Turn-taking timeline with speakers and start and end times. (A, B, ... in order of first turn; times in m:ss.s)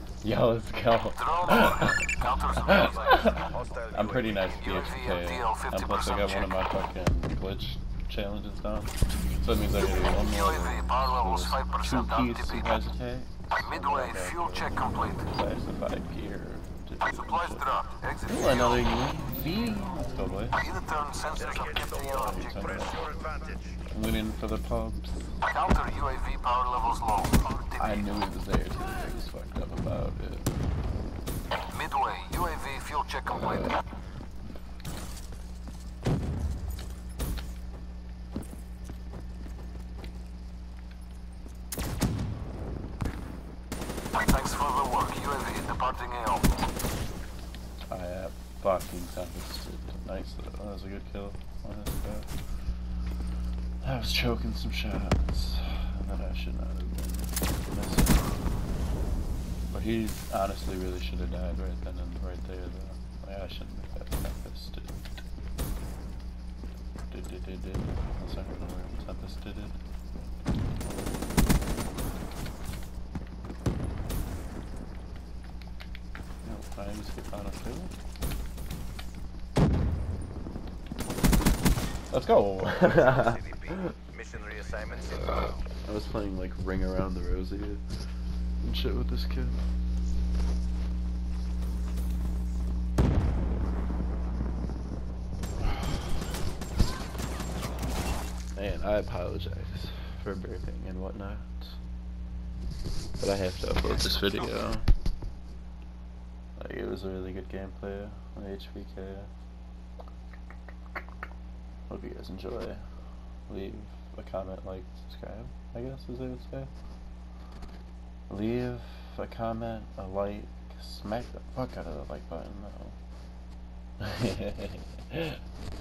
0:00.2-0:17.7 A
0:01.2-0:03.2 B
0:03.4-0:04.0 C
0:04.6-0:06.5 B
0:10.3-0:12.7 B
0:13.6-0:15.2 B
0:17.1-0:18.8 B
0:18.2-0:20.7 A
0:20.6-0:22.5 B
0:21.6-0:22.1 C
0:22.2-0:23.0 A
0:22.8-0:23.6 C
0:23.9-0:25.4 A
0:25.5-0:28.0 B
0:27.7-0:30.5 A
0:31.7-0:33.8 B
0:44.1-0:46.5 B
0:47.9-0:52.3 A
0:53.8-0:58.4 A
0:59.7-1:05.0 A
1:07.1-1:09.8 A
1:16.4-1:17.9 A
1:22.1-1:23.9 A
1:23.0-1:25.3 C
1:25.8-1:27.8 A
1:28.6-1:29.6 A
1:38.5-1:41.8 A
1:43.2-1:44.9 A
1:46.6-1:49.3 A
1:51.9-1:52.8 A
1:53.5-1:56.7 A
1:58.3-2:03.0 A
2:04.0-2:05.4 A